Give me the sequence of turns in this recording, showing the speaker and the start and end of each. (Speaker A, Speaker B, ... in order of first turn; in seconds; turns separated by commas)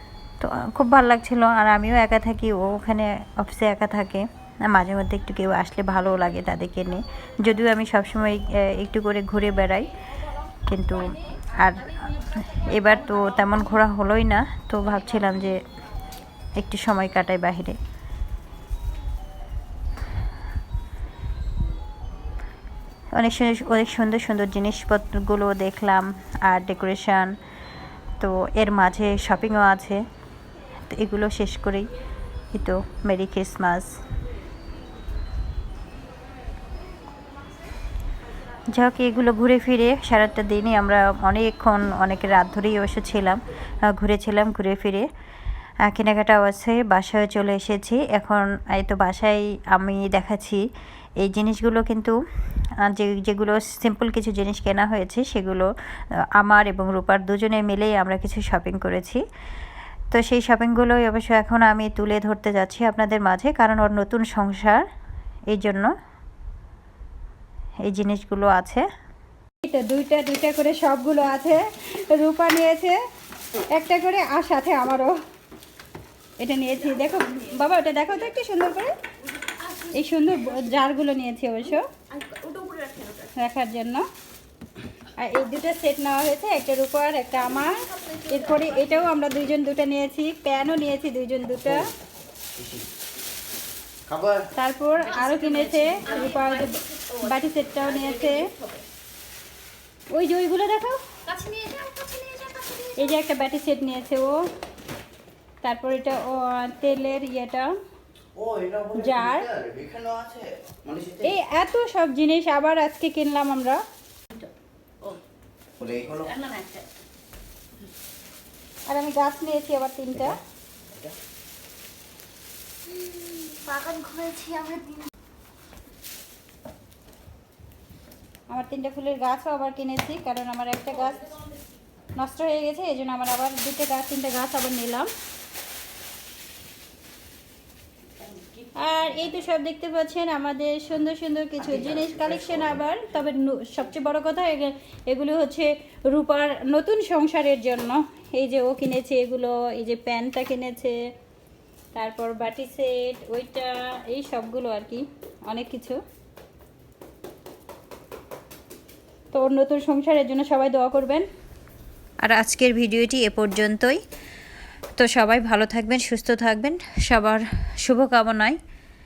Speaker A: 0.4-9.9, Speaker A: 10.7-15.6, Speaker A: 16.6-17.8, Speaker A: 23.1-27.4, Speaker A: 28.2-30.0, Speaker A: 30.9-31.9, Speaker A: 32.5-34.0, Speaker A: 38.7-45.0, Speaker A: 45.9-50.6, Speaker A: 51.2-52.2, Speaker A: 52.8-55.7, Speaker A: 56.4-59.2, Speaker A: 60.1-64.8, Speaker A: 65.5-65.9, Speaker A: 67.8-68.8, Speaker B: 69.6-73.0, Speaker B: 73.7-75.2, Speaker B: 76.4-79.0, Speaker B: 79.7-84.1, Speaker B: 85.2-91.9, Speaker C: 94.1-94.4, Speaker B: 94.5-98.7, Speaker B: 100.1-104.4, Speaker B: 105.6-107.7, Speaker C: 108.4-108.9, Speaker B: 108.9-109.5, Speaker C: 109.7-111.2, Speaker B: 111.2-113.8, Speaker C: 115.8-116.3, Speaker B: 118.9-120.4, Speaker B: 123.3-125.0, Speaker B: 128.5-131.4, Speaker B: 132.1-135.1, Speaker B: 138.7-150.9, Speaker B: 151.9-156.0, Speaker B: 159.3-161.3, Speaker A: 162.2-164.0, Speaker A: 165.0-168.6